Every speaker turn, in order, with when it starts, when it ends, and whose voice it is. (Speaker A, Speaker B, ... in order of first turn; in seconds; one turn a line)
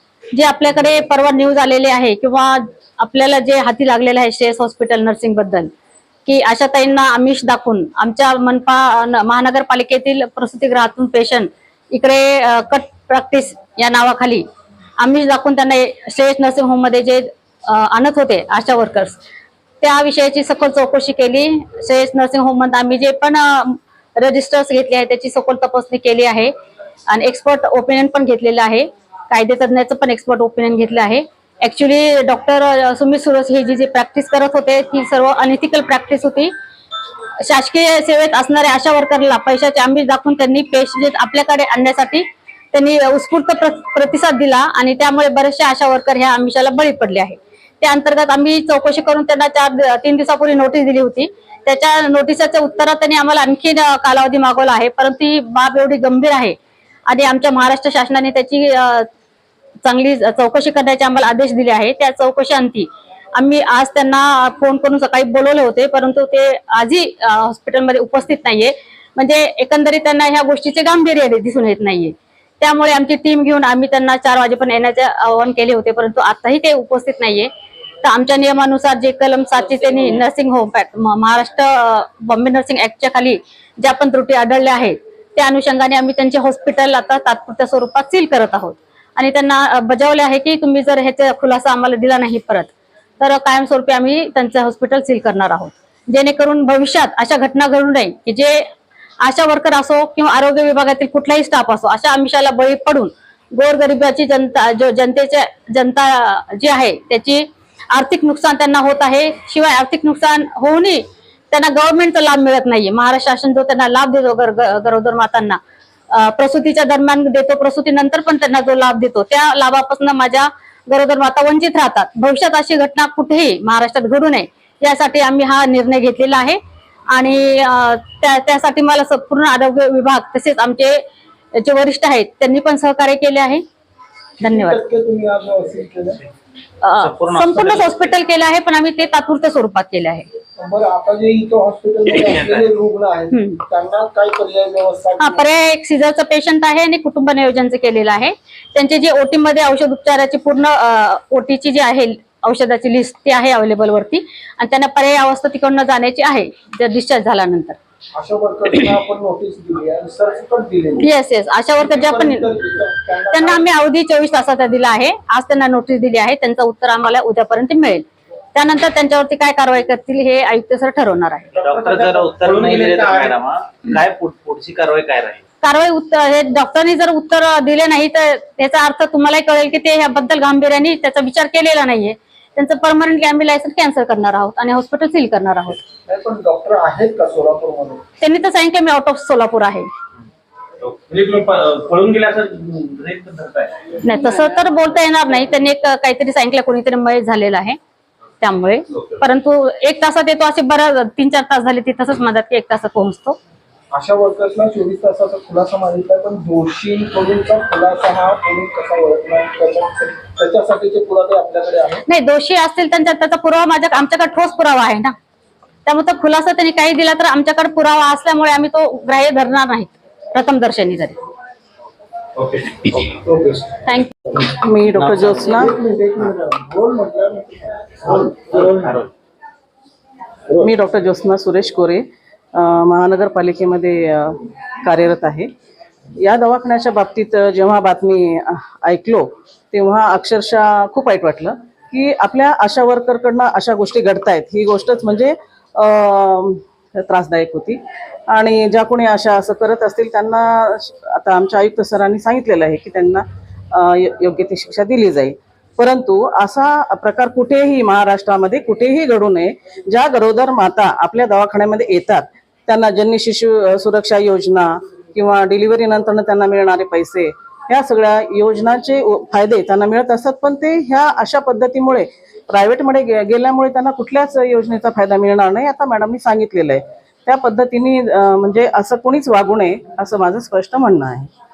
Speaker A: 0.3-5.7
Speaker A: 6.2-14.4
Speaker A: 15.0-19.2
Speaker A: 19.8-26.5
Speaker A: 27.1-36.5
Speaker A: 37.4-56.5
Speaker A: 57.1-59.1
Speaker A: 59.8-77.5
Speaker A: 78.0-98.7
Speaker A: 99.2-115.6
Speaker A: 116.1-126.6
Speaker A: 127.1-131.0
Speaker A: 131.5-133.6
Speaker B: 134.4-136.2
Speaker A: 134.4-134.8
Speaker A: 136.8-140.3
Speaker C: 137.0-137.9
Speaker B: 140.6-145.4
Speaker C: 142.1-142.7
Speaker A: 143.3-143.6
Speaker A: 145.2-157.8
Speaker B: 158.1-161.1
Speaker A: 161.0-162.5
Speaker B: 161.8-163.7
Speaker A: 163.3-171.5
Speaker C: 171.5-175.4
Speaker B: 171.6-173.4
Speaker A: 175.6-185.8
Speaker B: 186.1-188.0
Speaker A: 188.2-189.9
Speaker C: 190.8-193.8
Speaker A: 194.0-197.8
Speaker A: 198.4-203.4
Speaker B: 203.9-212.0
Speaker A: 212.1-215.1
Speaker A: 215.8-221.2
Speaker C: 222.4-223.0
Speaker B: 223.1-223.7
Speaker A: 223.8-224.1
Speaker D: 224.6-225.7
Speaker C: 224.9-225.7
Speaker B: 225.5-228.8
Speaker C: 228.5-229.1
Speaker D: 230.6-235.5
Speaker D: 236.2-247.8
Speaker D: 248.3-281.3